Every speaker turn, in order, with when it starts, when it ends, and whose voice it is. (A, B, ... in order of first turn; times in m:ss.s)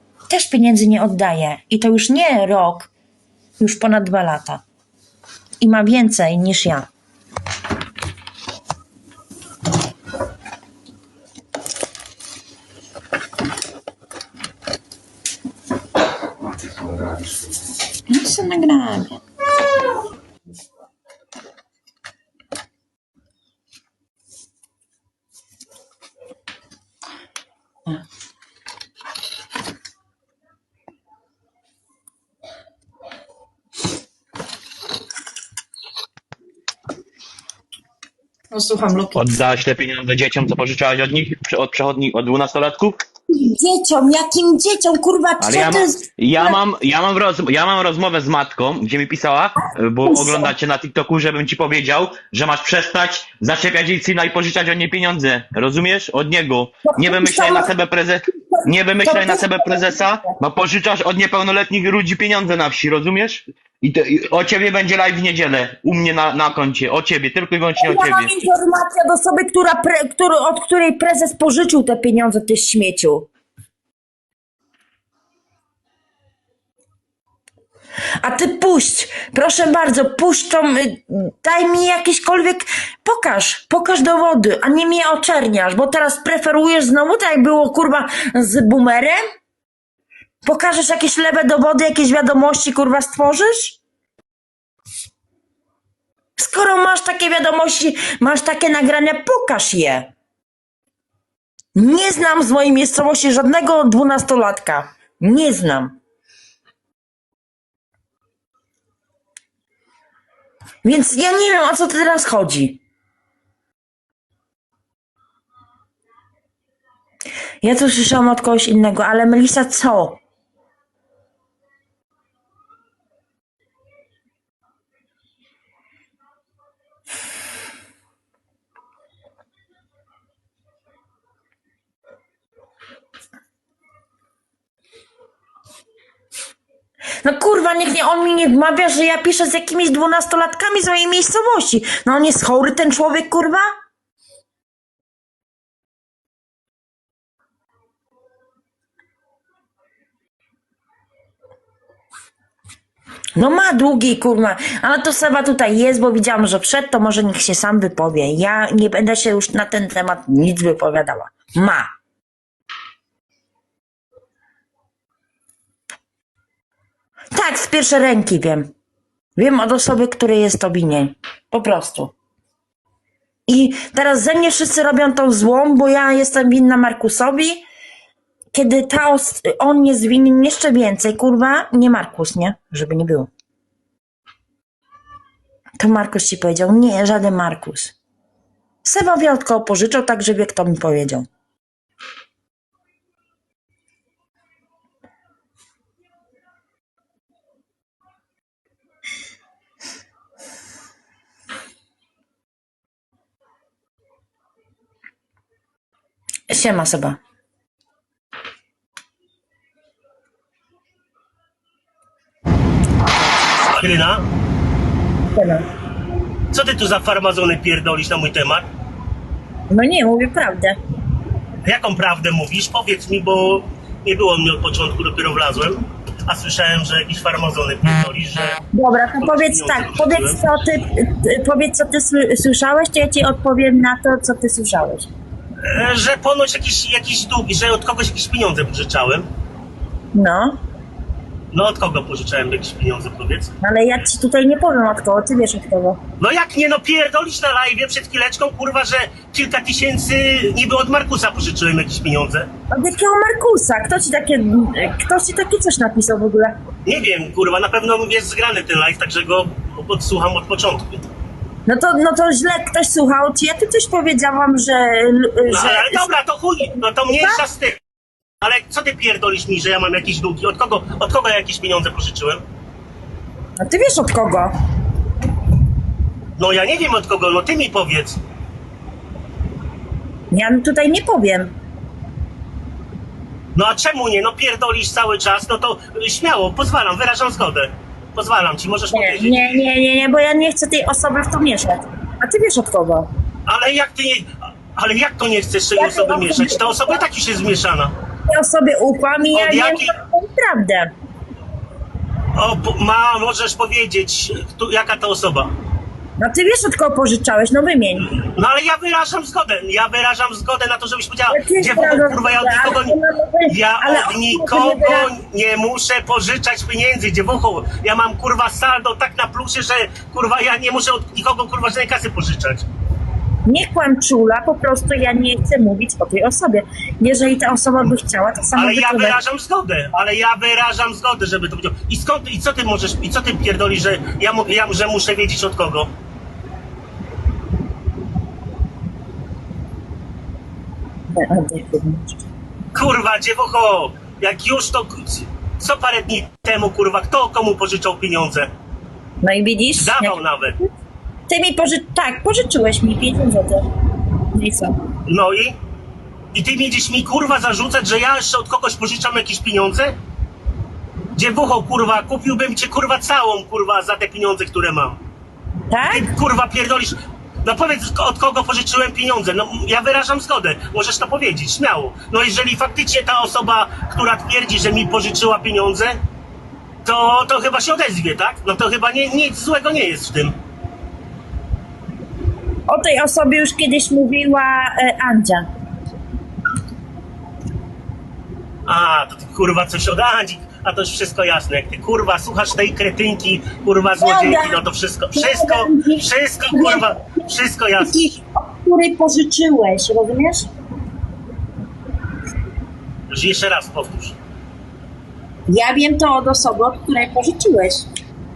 0:00.3-0:02.9 A
0:03.6-0:04.6 A
0:05.6-0:06.9 A
0:18.1-0:19.2 A
0:38.5-0:39.3 A
0:39.2-0:43.0 B
0:43.3-0:46.6 A
0:45.4-1:08.3 B
0:50.0-0:50.5 A
0:56.8-0:57.7 A
0:58.3-1:00.3 A
1:07.8-1:13.3 A
1:18.2-1:29.2 A
1:30.4-1:33.8 A
1:36.4-1:40.1 A
1:41.7-1:46.0 A
1:50.8-1:52.8 A
1:57.6-2:00.2 A
2:17.2-2:23.7 A
2:33.4-2:41.9 A
2:47.3-2:48.7 A
2:49.4-2:52.1 A
2:53.5-2:57.6 A
2:58.5-3:03.3 A
3:05.8-3:08.0 A
3:08.8-3:11.3 A
3:26.5-3:27.2 A
3:33.7-3:34.2 C
3:35.3-3:35.7 A
3:36.5-3:38.7 C
3:39.7-3:40.8 A
3:41.6-3:48.6 C
3:48.7-3:55.1 A
3:49.2-3:50.4 C
3:55.6-3:59.3 C
4:00.1-4:00.6 A
4:01.5-4:03.6 C
4:03.6-4:06.0 A
4:06.2-4:12.5 C
4:12.7-4:16.6 A
4:16.9-4:21.1 C
4:21.7-4:26.1 A
4:25.5-4:27.8 C
4:27.1-4:27.4 A
4:28.4-4:32.4 C
4:33.6-4:34.5 A
4:36.4-4:38.2 C
4:40.3-4:41.5 A
4:43.6-4:49.5 C
4:48.9-4:53.1 A
4:53.5-4:57.9 C
4:55.8-4:57.0 A
4:58.3-5:00.9 A
4:59.3-5:00.0 C
5:02.4-5:05.5 C
5:06.2-5:08.1 A
5:08.0-5:13.0 C
5:11.3-5:15.1 A
5:13.5-5:22.7 C
5:23.5-5:29.2 A
5:28.6-5:35.9 C
5:41.1-5:42.2 A
5:42.7-5:48.5 C
5:49.2-5:50.2 A
5:49.8-5:50.6 C
5:51.3-5:53.7 A
5:54.3-5:54.8 A
5:55.1-5:55.6 C
5:56.3-6:00.0 C
6:01.2-6:05.0 C
6:05.7-6:06.1 A
6:05.9-6:16.0 C
6:16.8-6:20.4 C
6:22.7-6:25.5 A
6:28.7-6:38.1 C
6:34.0-6:34.6 A
6:35.1-6:37.1 A
6:37.8-6:40.5 A
6:43.1-6:44.2 C
6:45.5-6:47.9 A